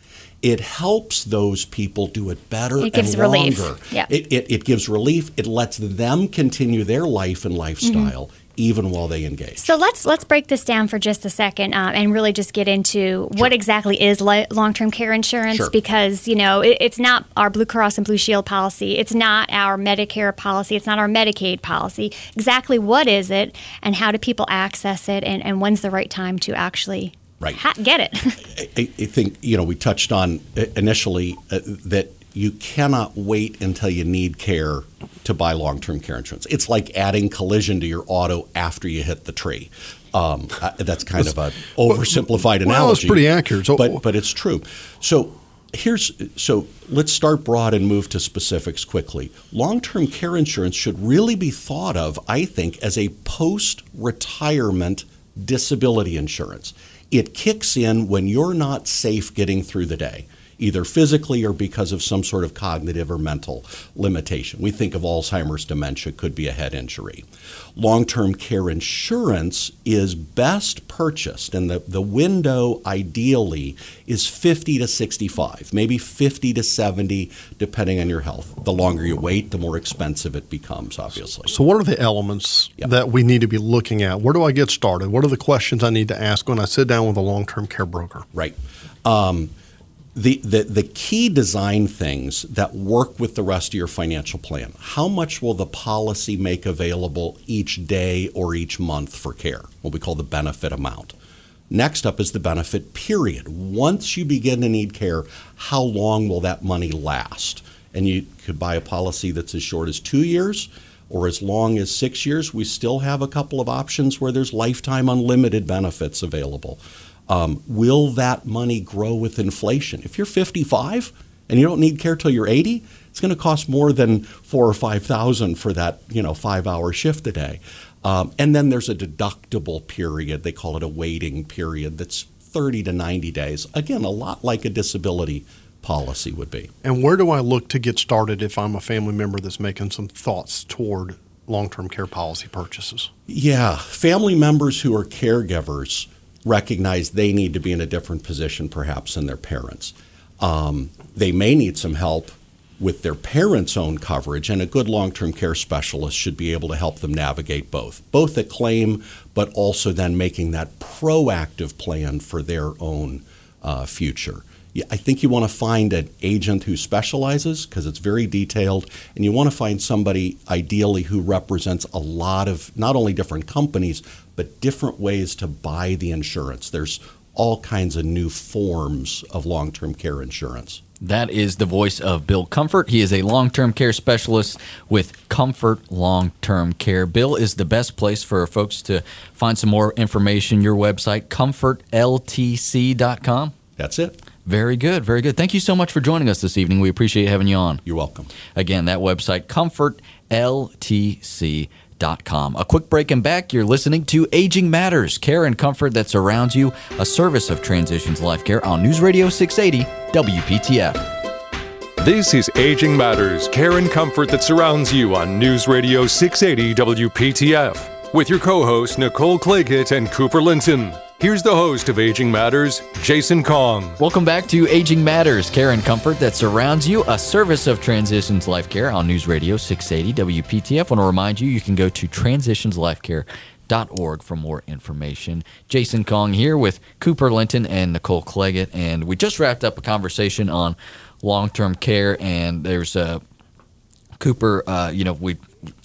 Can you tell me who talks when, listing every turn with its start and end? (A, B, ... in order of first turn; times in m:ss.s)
0:00.4-0:09.7 A
0:02.8-0:04.1 B
0:07.8-0:08.1 B
0:09.6-0:28.5 B
0:28.5-1:21.5 A
0:41.8-0:44.0 C
1:21.5-1:28.2 C
1:28.3-1:29.5 A
1:30.1-1:41.1 A
1:41.7-2:16.7 A
2:16.8-2:23.1 C
2:23.3-3:00.8 A
3:01.0-3:13.5 D
3:13.8-3:14.2 A
3:14.4-3:17.8 D
3:17.8-3:18.3 A
3:18.4-3:31.1 D
3:32.0-3:44.0 E
3:44.0-4:03.2 D
4:04.2-4:05.4 D